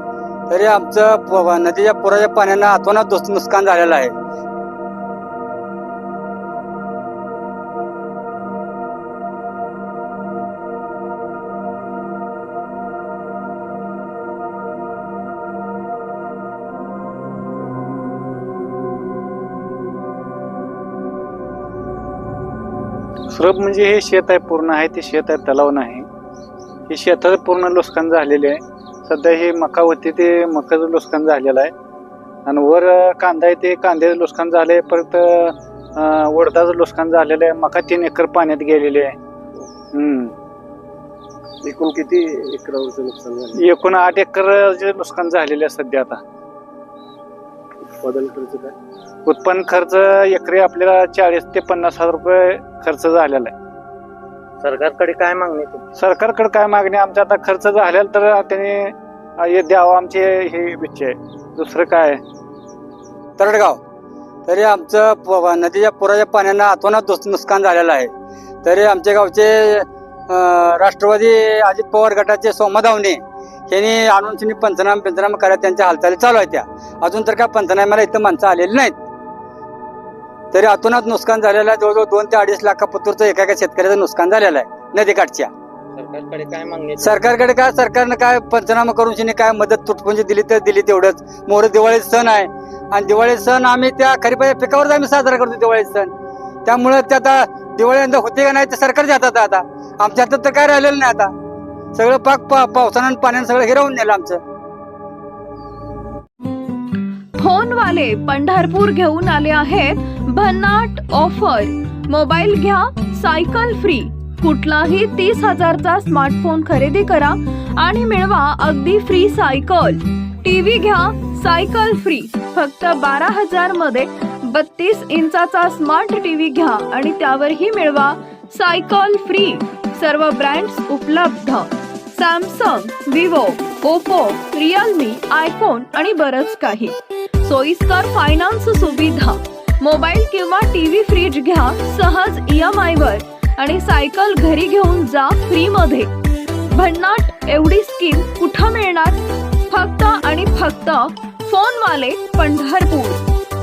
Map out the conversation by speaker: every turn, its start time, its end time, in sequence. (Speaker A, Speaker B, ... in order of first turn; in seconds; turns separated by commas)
Speaker A: 0.5-4.1, Speaker B: 23.3-26.1, Speaker B: 26.9-31.7, Speaker B: 32.5-39.2, Speaker B: 39.9-40.3, Speaker C: 41.6-43.5, Speaker B: 43.5-46.2, Speaker C: 47.9-48.8, Speaker B: 49.3-53.5, Speaker C: 54.6-55.9, Speaker B: 56.0-62.2, Speaker A: 63.4-63.8, Speaker A: 64.5-68.1, Speaker A: 68.6-79.0, Speaker A: 80.5-85.5, Speaker C: 86.0-87.2, Speaker A: 87.0-96.1, Speaker A: 96.7-101.3, Speaker A: 102.0-104.4, Speaker D: 107.4-146.1, Speaker D: 146.7-153.2